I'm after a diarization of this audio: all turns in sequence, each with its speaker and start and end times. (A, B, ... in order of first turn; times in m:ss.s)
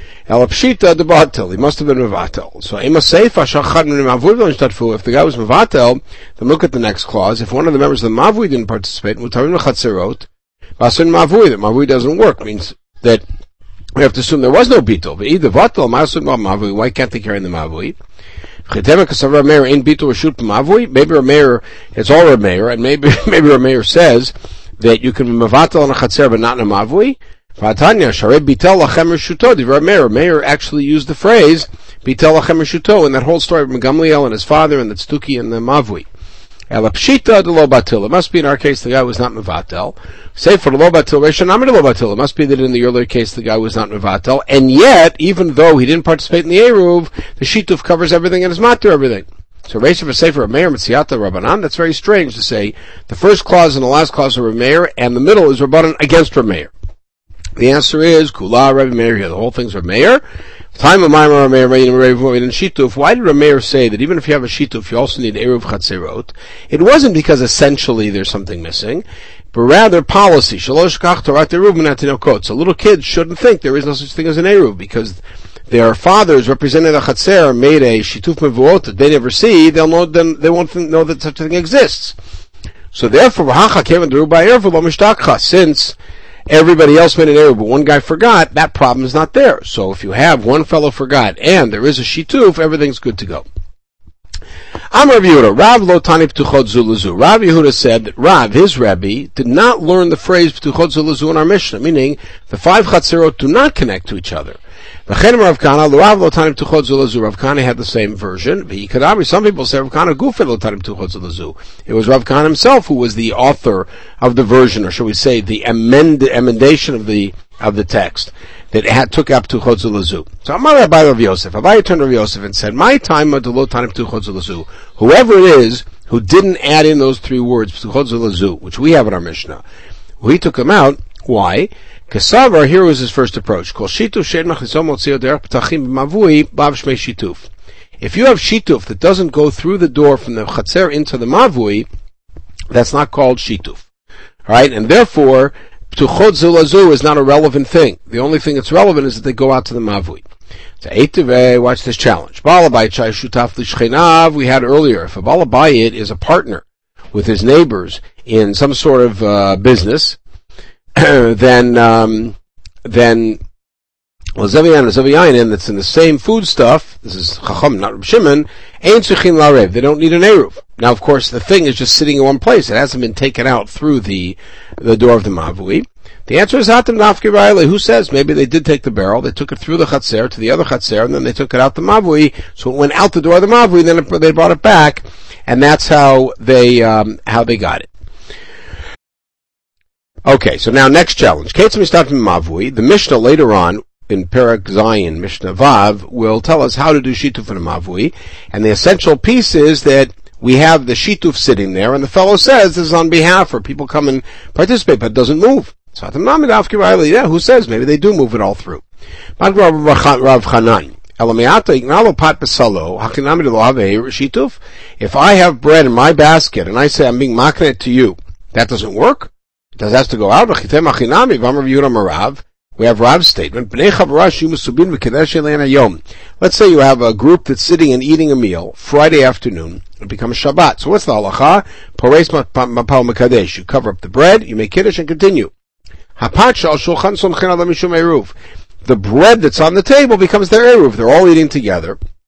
0:00.3-0:13.2 A
0:14.0-0:18.0 A
0:18.7-0:36.1 A
0:36.7-0:56.7 A
0:57.6-1:00.2 A
1:00.8-1:22.2 A
1:22.9-1:26.0 A
1:26.5-1:33.4 A
1:34.9-2:09.6 A
2:10.2-2:17.5 A
2:18.0-2:21.9 A
2:22.7-2:23.9 A
2:24.5-2:30.2 A
2:30.8-2:40.2 A
2:41.0-2:43.4 A
2:44.4-3:07.9 A
3:10.3-3:28.8 A
3:29.4-3:55.5 A
3:56.2-3:58.3 A
3:58.8-4:02.0 A